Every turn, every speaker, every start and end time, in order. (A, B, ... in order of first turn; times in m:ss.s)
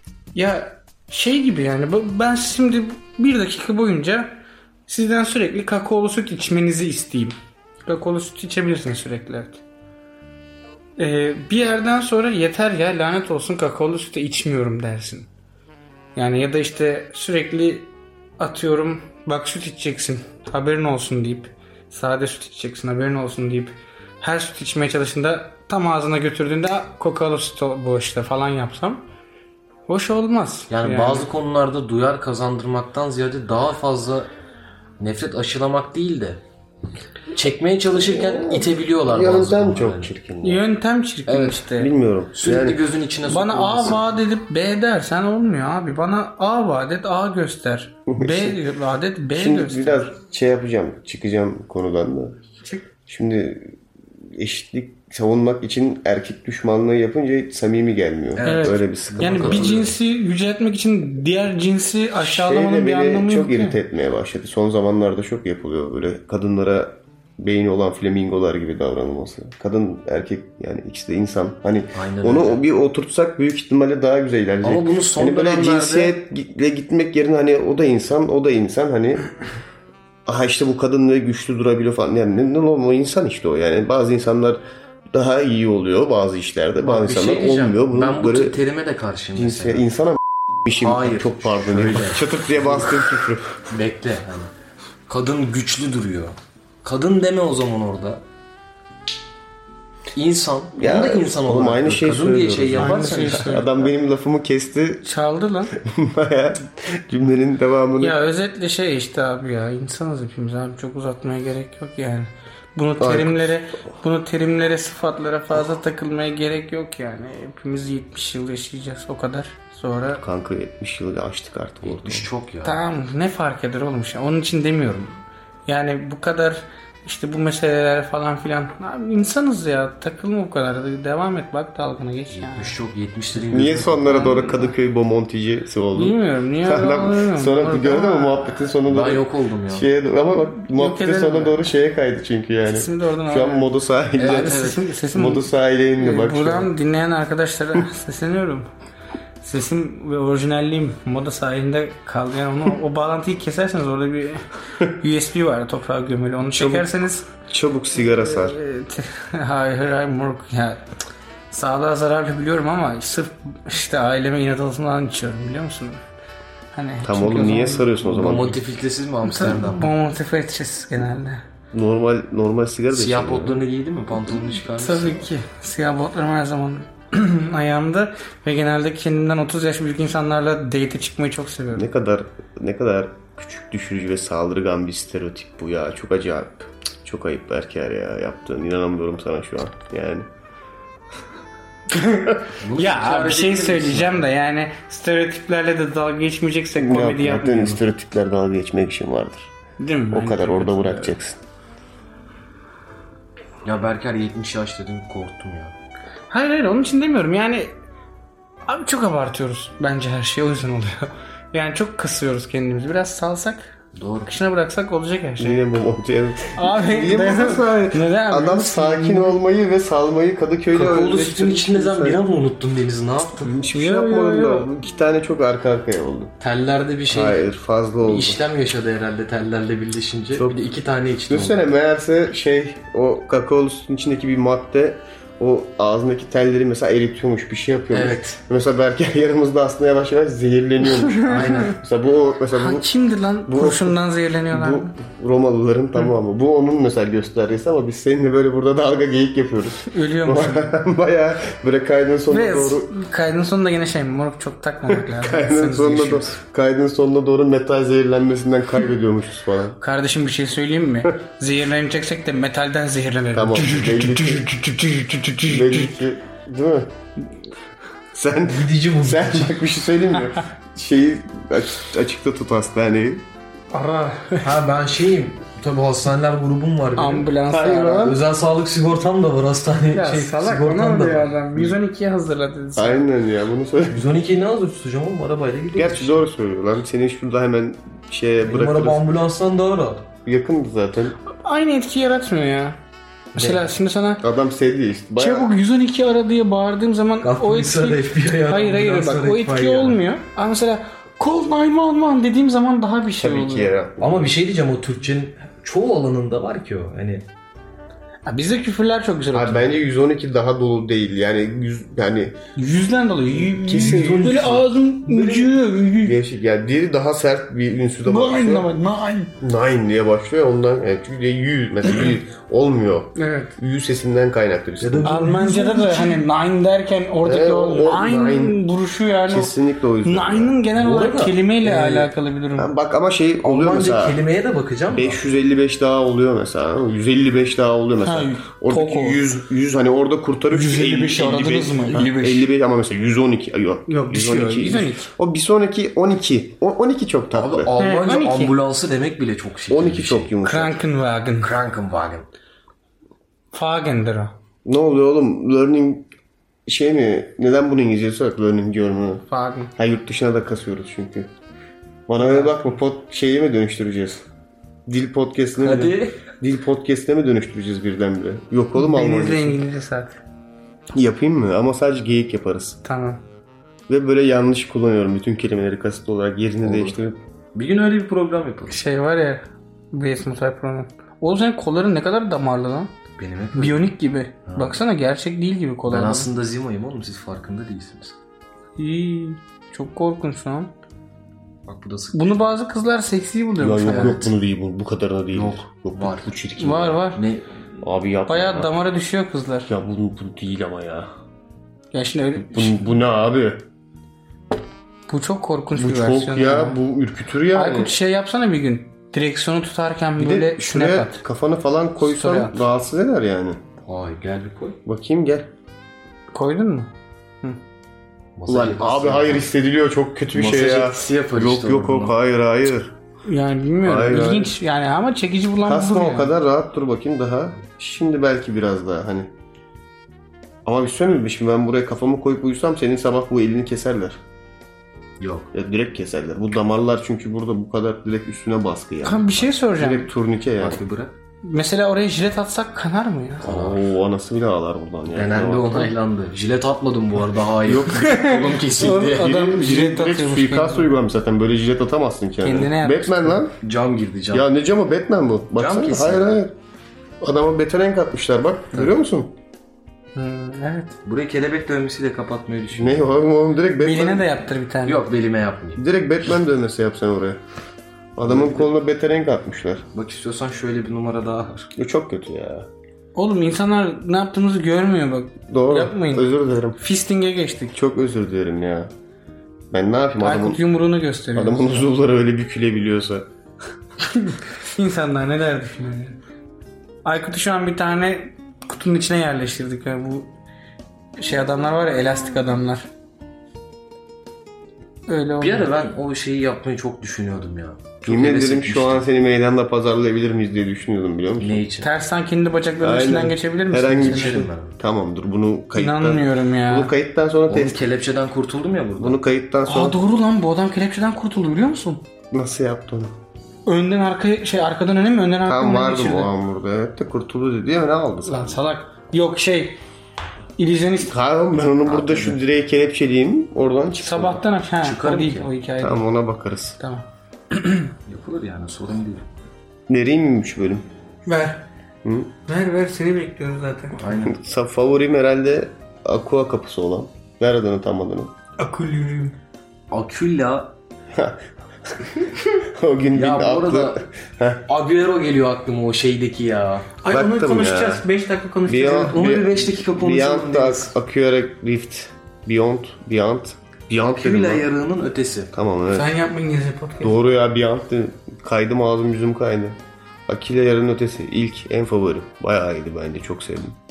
0:00.3-0:09.6 A
0:11.0-0:15.3 A
0:16.2-0:29.0 A
0:29.9-0:31.3 A
0:30.7-0:34.3 B
0:35.0-0:36.4 B
0:37.3-0:40.1 B
0:38.0-0:40.6 C
0:40.4-0:41.9 A
0:41.3-0:41.6 B
0:41.8-0:42.8 C
0:42.3-0:44.0 B
0:43.2-0:50.1 A
0:48.1-0:48.6 C
0:49.3-0:52.4 C
0:53.1-0:59.8 C
0:58.3-1:00.0 B
0:58.4-1:03.8 A
1:02.2-1:19.2 C
1:11.9-1:12.6 B
1:14.6-1:16.1 B
1:20.2-1:28.6 C
1:26.8-1:29.9 B
1:29.4-1:33.6 C
1:30.8-1:33.0 B
1:33.7-1:34.5 B
1:35.1-1:38.2 B
1:40.1-1:43.6 B
1:40.7-1:45.0 C
1:42.8-1:43.7 A
1:45.0-1:45.7 A
1:45.7-1:48.2 C
1:48.0-2:00.2 A
1:53.0-1:53.5 C
2:00.2-2:02.3 C
2:01.8-2:02.8 B
2:02.6-2:12.8 A
2:12.3-2:14.3 B
2:13.5-2:26.7 C
2:14.0-2:14.7 A
2:15.9-2:18.5 A
2:18.8-2:19.8 B
2:20.7-2:21.6 A
2:22.6-2:28.7 A
2:24.2-2:24.8 B
2:29.4-2:37.3 A
2:36.5-2:36.9 C
2:37.5-2:38.6 C
2:38.0-2:40.8 A
2:41.5-2:46.0 A
2:46.7-2:47.9 A
2:47.0-2:48.6 C
2:48.0-2:49.9 B
2:49.2-2:51.4 A
2:51.7-2:53.6 C
2:52.9-2:55.3 B
2:54.6-3:01.9 A
3:01.7-3:10.3 C
3:11.9-3:17.8 A
3:12.6-3:14.3 B
3:16.7-3:19.5 C
3:19.8-3:21.2 A
3:20.1-3:21.4 C
3:23.6-3:25.8 B
3:26.3-3:27.8 A
3:28.7-3:33.7 A
3:33.9-3:34.3 B
3:34.3-3:35.6 A
3:35.4-3:42.2 C
3:36.5-3:39.4 A
3:40.7-3:43.5 B
3:43.4-3:46.3 C
3:43.7-3:44.7 A
3:46.4-3:47.4 B
3:47.1-3:48.4 C
3:48.0-3:51.6 B
3:51.3-4:02.8 C
3:57.9-3:58.4 B
4:00.9-4:01.7 A
4:01.3-4:01.8 B
4:02.5-4:04.9 A
4:03.5-4:04.0 C
4:04.5-4:12.9 C
4:09.8-4:10.7 A
4:12.3-4:16.3 A
4:14.9-4:19.8 C
4:19.8-4:26.0 A
4:23.3-4:24.5 C
4:25.4-4:26.9 C
4:28.1-4:33.2 C
4:28.4-4:29.6 B
4:33.7-4:34.6 A
4:34.4-4:37.3 B
4:37.0-4:38.1 A
4:37.5-4:38.2 C
4:38.0-4:41.8 B
4:39.9-4:43.0 A
4:42.8-4:44.1 C
4:43.9-4:46.2 B
4:45.7-4:49.0 C
4:48.4-4:50.1 B
4:50.2-4:51.2 C
4:51.3-4:52.8 A
4:53.3-4:53.6 B
4:53.4-4:54.2 A
4:54.2-4:55.5 C
4:55.2-5:03.7 A
4:57.2-5:00.0 B
5:03.2-5:04.3 C
5:04.0-5:07.3 B
5:08.2-5:09.6 A
5:09.3-5:12.4 C
5:12.6-5:16.2 A
5:13.4-5:15.5 B
5:13.7-5:14.2 C
5:16.0-5:18.7 C
5:18.0-5:19.3 A
5:19.4-5:25.1 C
5:23.2-5:23.5 A
5:24.8-5:26.2 B
5:25.0-5:32.7 A
5:27.2-5:28.6 C
5:29.3-5:30.6 C
5:30.7-5:32.1 B
5:32.6-5:34.2 C
5:33.4-5:35.2 B
5:34.9-5:47.7 C
5:38.0-5:39.2 A
5:40.5-5:42.5 A
5:43.9-5:45.1 A
5:47.3-5:50.3 B
5:47.8-5:48.5 A
5:49.7-5:50.8 C
5:50.4-5:51.5 A
5:51.4-5:52.3 B
5:53.5-5:54.3 A
5:54.6-5:56.1 C
5:56.6-6:01.3 C
5:59.3-5:59.7 A
6:02.1-6:04.2 C
6:02.2-6:02.7 A
6:04.9-6:09.6 C
6:05.6-6:06.2 B
6:08.7-6:10.2 A
6:10.9-6:12.8 C
6:12.8-6:13.2 A
6:13.9-6:17.2 C
6:16.6-6:17.0 B
6:17.5-6:18.8 B
6:18.7-6:22.9 A
6:23.2-6:23.8 B
6:23.5-6:26.3 A
6:24.4-6:24.8 B
6:25.9-6:28.2 B
6:28.8-6:30.7 A
6:31.7-6:32.3 B
6:32.1-6:34.2 A
6:33.6-6:37.0 C
6:33.8-6:34.3 B
6:35.3-6:36.3 B
6:36.6-6:37.2 A
6:37.1-6:37.6 B
6:37.8-6:38.7 C
6:38.3-6:39.7 A
6:39.7-6:41.1 C
6:41.9-6:42.9 A
6:42.4-6:43.6 C
6:45.1-6:46.8 A
6:45.8-6:47.9 C
6:47.5-6:51.2 A
6:50.2-6:53.6 C
6:52.0-6:52.6 A
6:53.8-6:54.8 B
6:54.8-6:55.5 C
6:56.3-6:56.9 A
6:58.4-6:59.5 B
6:58.5-7:02.9 C
7:00.3-7:02.2 B
7:03.2-7:06.3 A
7:03.8-7:04.5 C
7:05.6-7:09.3 C
7:10.6-7:14.2 C
7:15.2-7:15.5 B
7:15.5-7:20.8 C
7:19.0-7:20.1 A
7:20.6-7:21.1 B
7:21.4-7:23.4 A
7:23.4-7:23.8 B
7:23.4-7:25.9 C
7:25.1-7:29.3 B
7:27.6-7:33.5 C
7:27.8-7:30.9 A
7:32.4-7:33.4 A
7:33.6-7:34.5 B
7:34.3-7:36.5 C
7:35.6-7:36.3 B
7:37.2-7:39.3 C
7:40.1-7:41.0 A
7:41.0-7:43.0 B
7:42.7-7:44.3 C
7:43.8-7:45.0 A
7:44.8-7:45.8 B
7:45.8-7:47.4 C
7:48.2-7:49.8 C
7:48.2-7:48.7 B
7:49.9-7:51.7 B
7:51.7-7:52.7 C
7:53.1-7:57.8 A
7:55.5-7:56.8 C
7:57.7-7:58.9 C
7:59.7-8:00.6 C
8:00.2-8:01.8 A
8:01.3-8:03.3 C
8:04.0-8:06.2 A
8:07.0-8:10.3 A
8:11.2-8:12.9 A
8:15.1-8:15.7 A
8:15.4-8:19.0 B
8:18.0-8:21.6 C
8:21.4-8:21.9 B
8:21.8-8:24.4 A
8:22.8-8:27.8 C
8:23.9-8:24.8 B
8:25.7-8:26.9 A
8:27.5-8:29.2 B
8:29.0-8:30.0 C
8:29.6-8:32.0 A
8:32.3-8:33.1 C
8:33.6-8:36.3 A
8:35.4-8:38.6 C
8:38.2-8:39.8 A
8:40.6-8:41.1 A
8:41.1-8:44.3 C
8:41.8-8:42.4 B
8:44.0-8:46.1 A
8:44.8-8:45.5 B
8:45.8-8:46.8 C
8:46.8-8:47.9 A
8:48.0-8:49.3 B
8:49.9-8:50.9 C
8:51.2-8:51.6 A
8:52.0-8:52.3 C
8:52.4-8:54.0 A
8:54.0-8:54.4 B
8:54.2-8:58.3 C
8:58.6-8:59.4 A
8:59.9-9:00.7 B
9:01.1-9:01.4 C
9:02.0-9:04.6 C
9:03.1-9:04.0 B
9:04.6-9:06.9 B
9:07.0-9:09.2 A
9:07.1-9:08.0 C
9:08.6-9:14.7 C
9:08.8-9:10.9 B
9:14.0-9:15.5 B
9:15.5-9:16.2 C
9:15.9-9:17.1 A
9:17.0-9:23.8 C